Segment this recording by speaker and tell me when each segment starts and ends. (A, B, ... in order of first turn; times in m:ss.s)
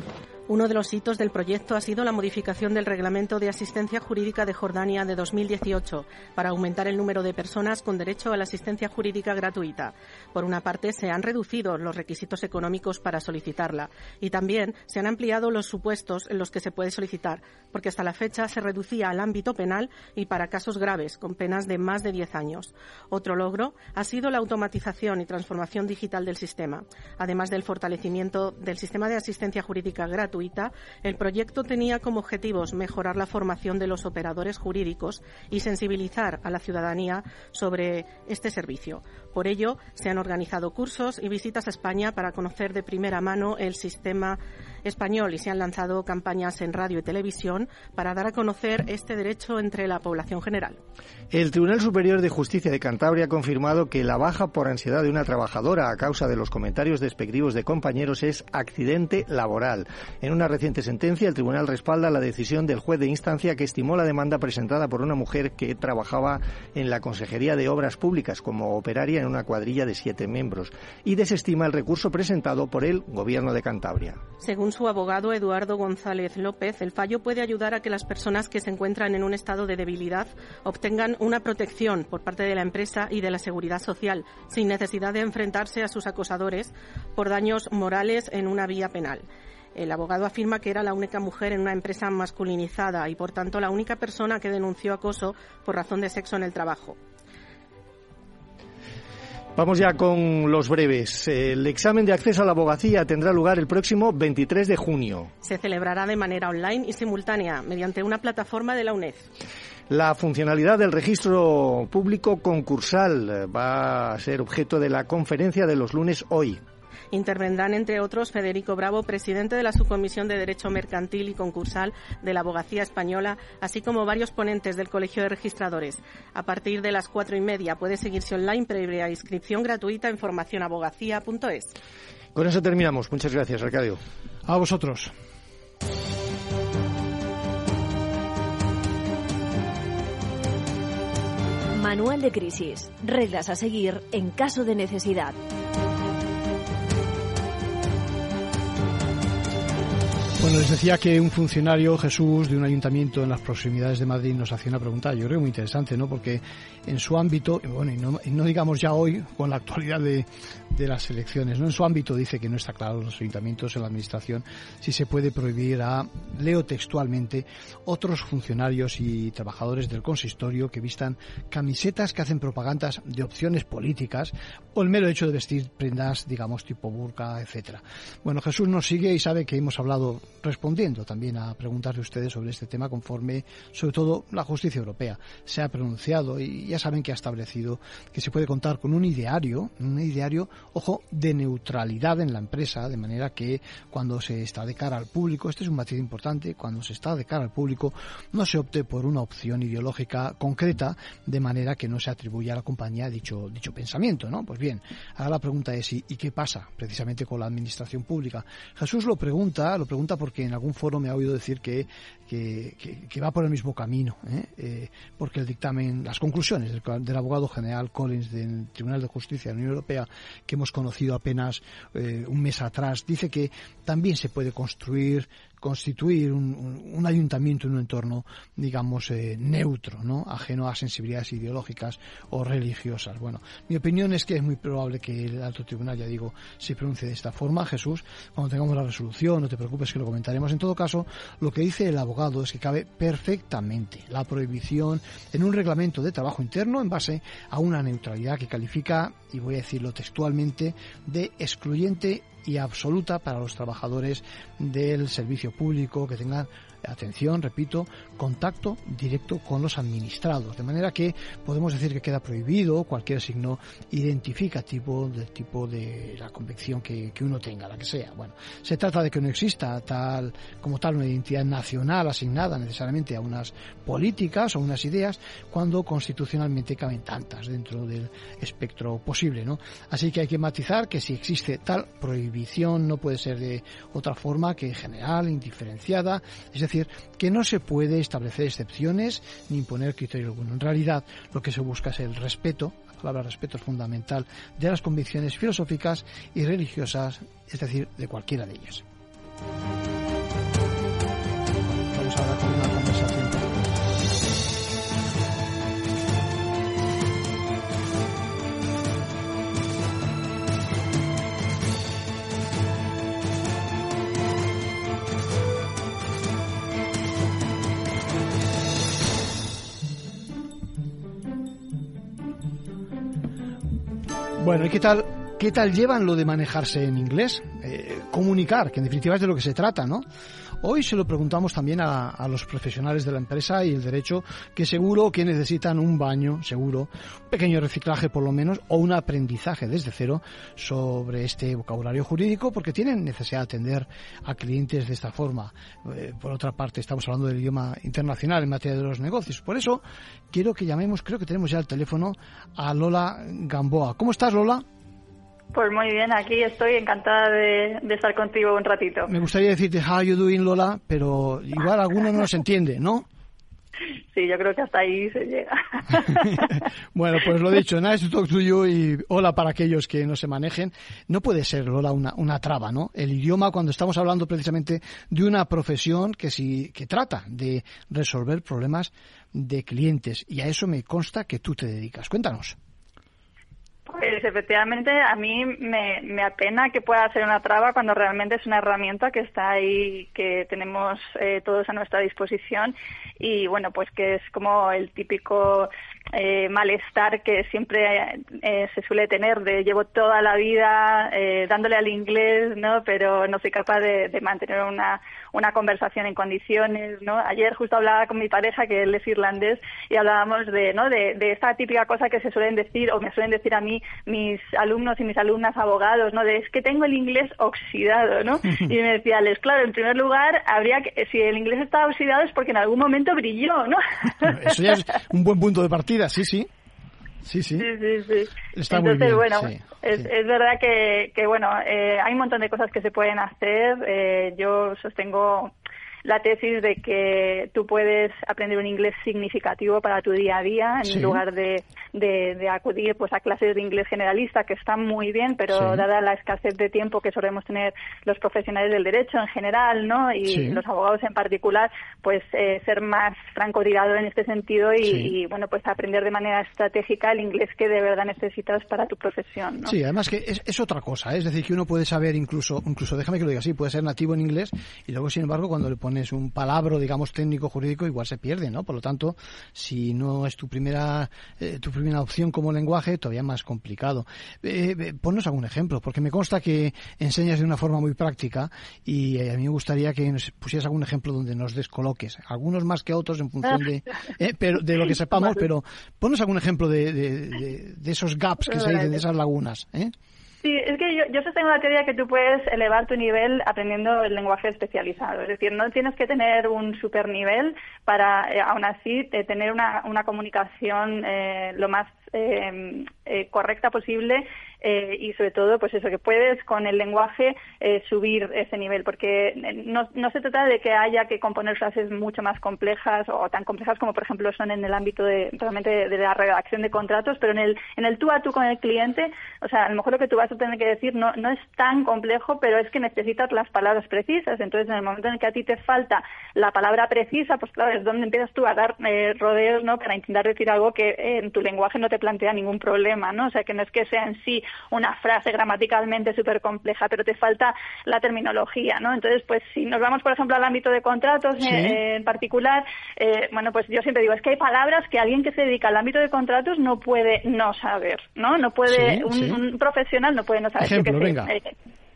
0:00.5-0:50.8 A
0:51.3-1:14.2 B
1:14.4-1:37.0 A
1:39.6-1:45.3 B
1:45.4-1:49.3 A
1:49.9-1:56.6 B
1:57.1-2:11.8 A
2:12.4-2:14.0 B
2:14.5-2:15.1 C
2:21.7-2:25.4 D
2:30.4-4:58.8 C
5:01.7-5:03.6 C
5:24.4-5:30.0 C
5:30.6-5:54.6 C
5:55.5-5:59.1 E
5:59.1-6:03.1 C
6:04.1-6:06.6 E
6:06.4-6:22.6 C
6:23.9-7:04.5 E
7:04.2-7:06.5 C
7:07.2-7:07.7 C
7:07.6-7:15.5 E
7:08.6-7:10.1 C
7:16.0-7:39.8 E
7:20.9-7:21.2 C
7:25.5-7:25.8 C
7:30.2-7:30.6 C
7:34.8-7:35.2 C
7:39.6-8:09.9 C
8:08.5-8:08.9 E
8:10.4-9:11.5 E
9:01.4-9:01.8 C
9:08.7-9:09.4 C
9:10.6-9:11.3 C